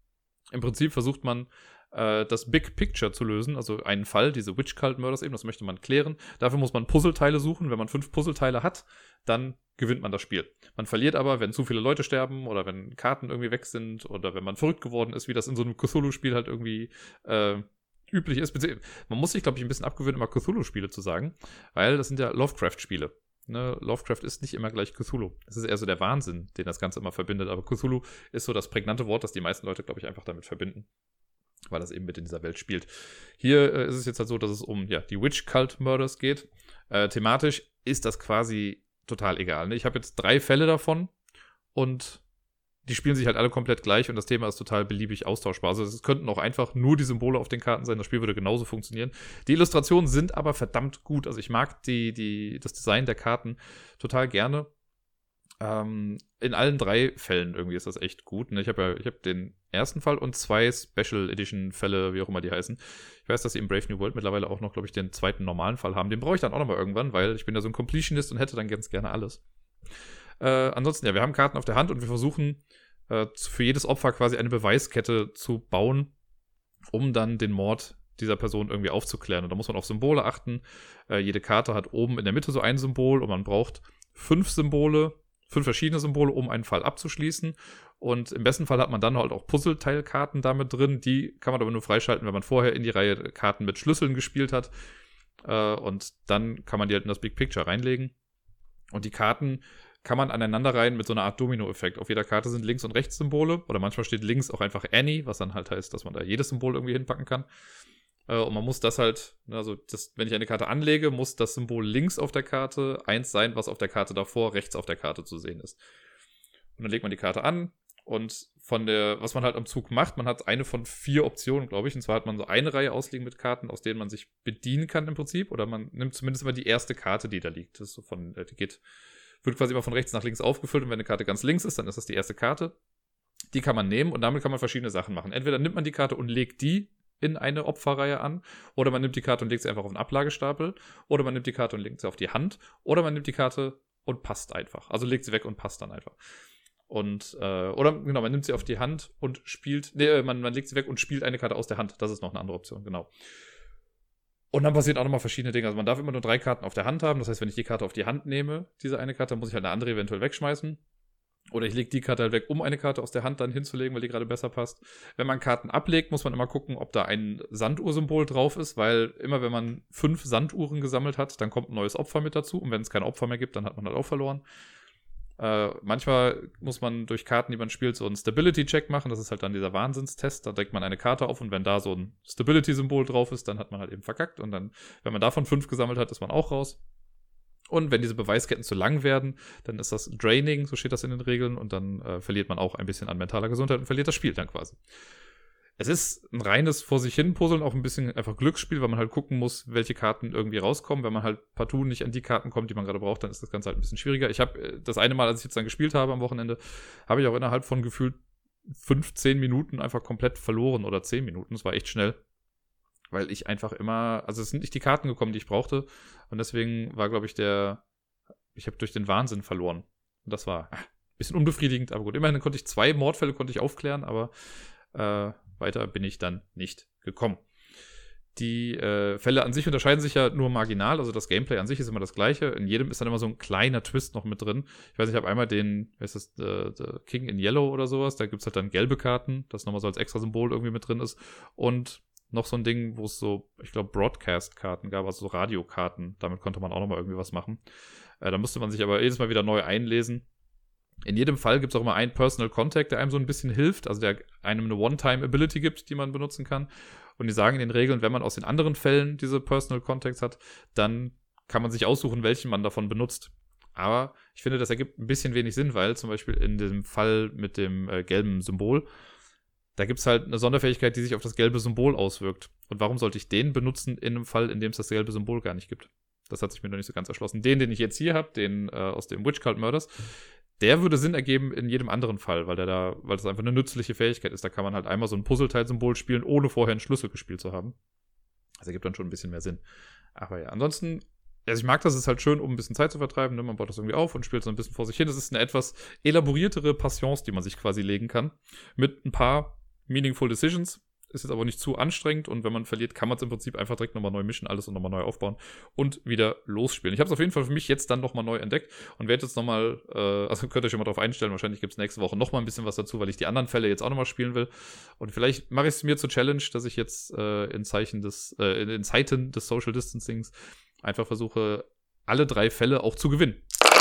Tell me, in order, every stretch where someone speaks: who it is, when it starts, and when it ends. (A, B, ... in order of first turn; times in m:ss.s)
0:00.5-0:30.9 A
0:31.7-0:41.1 A
0:41.7-0:42.2 A
0:42.9-0:54.7 A
0:55.6-1:09.4 A
1:10.4-1:16.1 A
1:16.9-1:34.7 A
1:35.4-1:38.1 A
1:38.9-1:47.5 A
1:48.3-1:55.8 A
1:56.8-2:08.8 A
2:09.4-2:12.8 A
2:13.5-2:26.2 A
2:26.9-2:33.1 A
2:34.5-2:40.8 A
2:41.5-2:54.4 A
2:55.4-3:06.8 A
3:07.7-3:14.8 A
3:15.8-3:32.2 A
3:33.1-3:37.8 A
3:38.5-3:44.3 A
3:44.9-3:47.4 A
3:48.4-4:07.6 A
4:08.2-4:10.3 A
4:11.1-4:28.9 A
4:29.8-4:40.1 A
4:40.6-4:47.8 A
4:48.6-4:49.6 A
4:50.2-5:23.4 A